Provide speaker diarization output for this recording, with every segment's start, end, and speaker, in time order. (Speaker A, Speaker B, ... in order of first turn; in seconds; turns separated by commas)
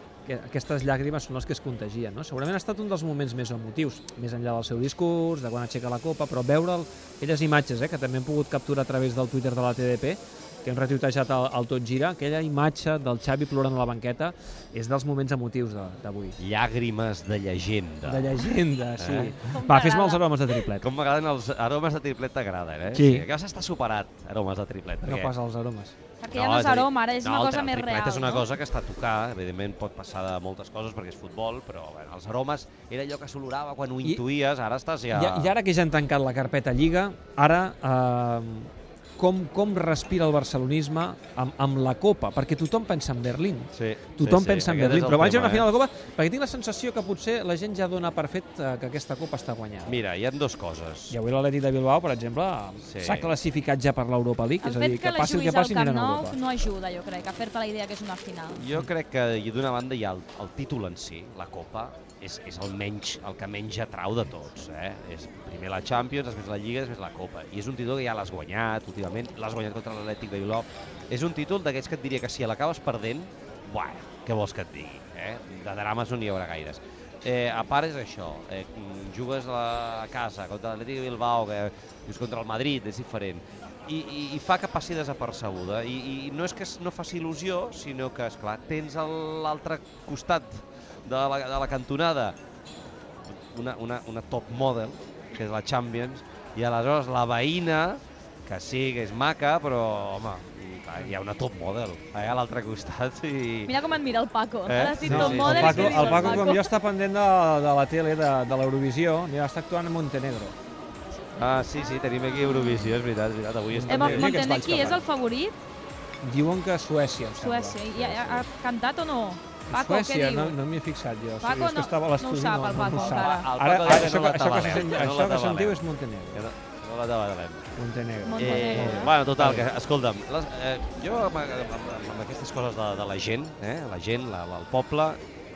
Speaker A: 0.2-16.4, Speaker B: 16.4-19.4, Speaker A: 18.1-20.9, Speaker C: 19.4-20.7, Speaker B: 20.7-25.3, Speaker A: 22.9-23.3, Speaker A: 25.0-26.0, Speaker C: 26.2-28.5, Speaker B: 26.3-35.5, Speaker A: 35.1-50.0, Speaker B: 43.7-45.7, Speaker B: 49.9-51.2, Speaker A: 51.1-56.4, Speaker B: 52.8-53.3, Speaker C: 54.6-58.7, Speaker B: 58.5-92.4, Speaker B: 93.3-103.8, Speaker C: 103.7-106.7, Speaker B: 104.7-106.6, Speaker A: 105.0-110.5, Speaker B: 111.4-115.0, Speaker C: 112.2-113.0, Speaker A: 113.7-115.0, Speaker C: 113.9-115.6, Speaker A: 116.2-117.8, Speaker C: 117.3-120.6, Speaker B: 117.9-118.5, Speaker A: 119.7-126.5, Speaker C: 121.4-123.5, Speaker B: 123.0-125.8, Speaker B: 126.3-127.7, Speaker A: 127.8-129.7, Speaker C: 128.2-129.2, Speaker B: 128.4-135.2